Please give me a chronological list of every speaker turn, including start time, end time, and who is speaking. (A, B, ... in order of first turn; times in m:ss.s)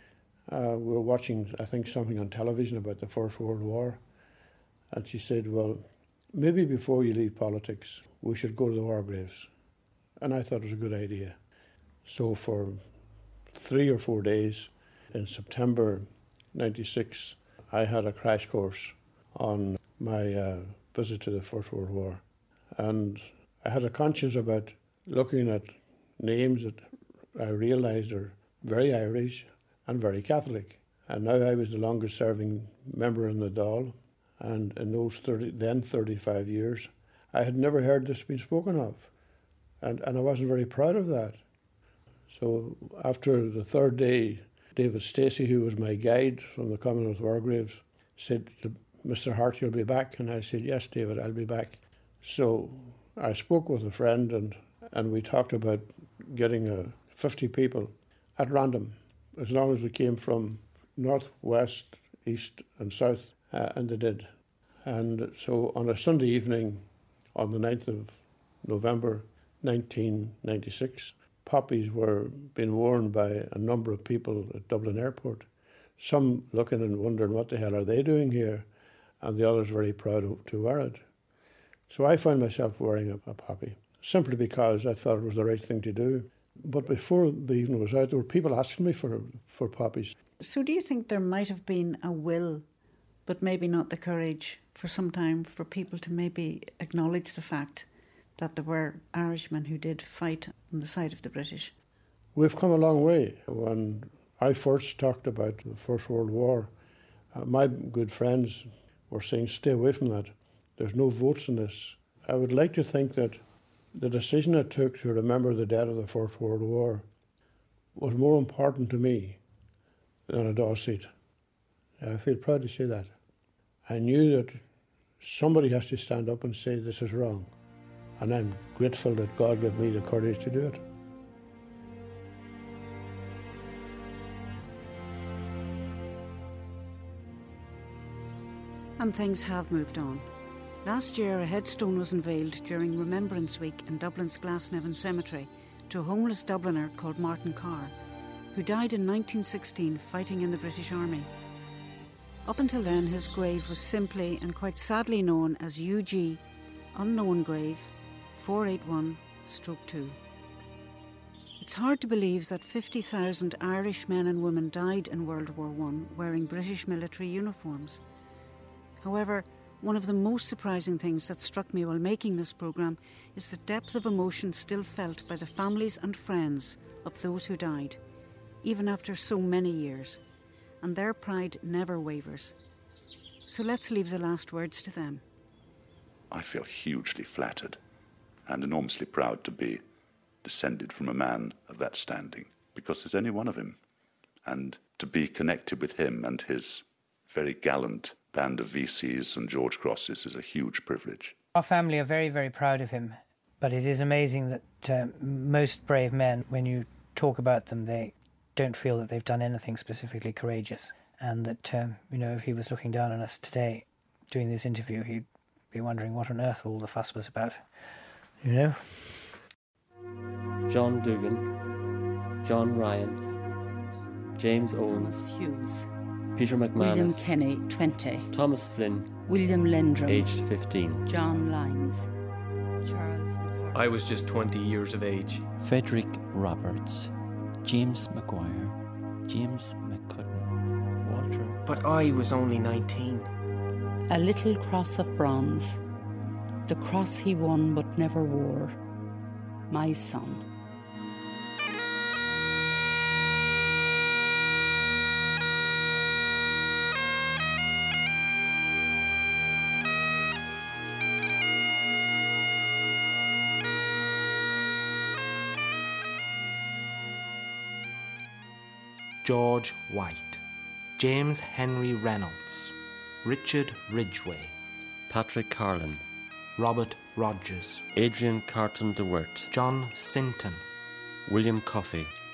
0:00.5-0:04.0 A
0:04.9-0:09.5 A
0:10.2-0:11.4 A
0:12.0-0:12.8 A
0:13.5-0:22.2 A
0:22.7-0:39.1 A
0:39.8-0:41.4 A
0:42.3-1:04.3 A
1:04.8-1:18.7 A
1:19.2-1:21.0 A
1:21.9-1:30.1 A
1:30.4-1:32.6 B
1:33.3-1:37.9 B
1:38.4-1:41.7 B
1:42.3-1:46.7 A
1:47.3-1:53.4 A
1:53.9-1:57.0 A
1:57.9-1:59.4 A
2:00.3-2:01.1 A
2:02.0-2:03.1 A
2:03.8-2:04.6 A
2:05.2-2:07.5 A
2:08.2-2:10.8 A
2:19.0-2:20.3 B
2:20.8-2:27.9 B
2:28.5-2:31.3 B
2:32.4-2:36.4 B
2:36.9-2:40.2 B
2:41.6-2:48.0 B
2:49.0-2:58.0 B
2:58.6-3:00.2 B
3:00.8-3:02.5 B
3:03.4-3:05.2 B
3:06.3-3:07.8 C
3:08.4-3:09.8 C
3:10.4-3:13.8 C
3:14.4-3:21.3 C
3:21.5-3:37.8 D
3:38.4-3:39.4 D
3:40.7-3:41.5 E
3:42.4-3:43.2 E
3:44.4-3:45.2 E
3:44.8-3:45.8 F
3:46.3-3:47.3 E
3:46.8-3:48.3 F
3:48.3-3:49.1 E
3:49.2-3:50.4 F
3:50.0-3:51.1 E
3:51.0-3:52.1 F
3:52.8-3:53.9 F
3:53.7-3:55.4 G
3:55.6-4:01.6 H
4:01.1-4:03.3 G
4:04.1-4:05.8 F
4:06.6-4:08.8 F
4:09.7-4:10.4 F
4:29.2-4:30.4 I
4:31.0-4:34.5 I
4:35.1-4:36.0 E
4:36.6-4:37.8 I
4:37.9-4:39.5 E
4:39.5-4:40.6 I
4:41.2-4:42.1 E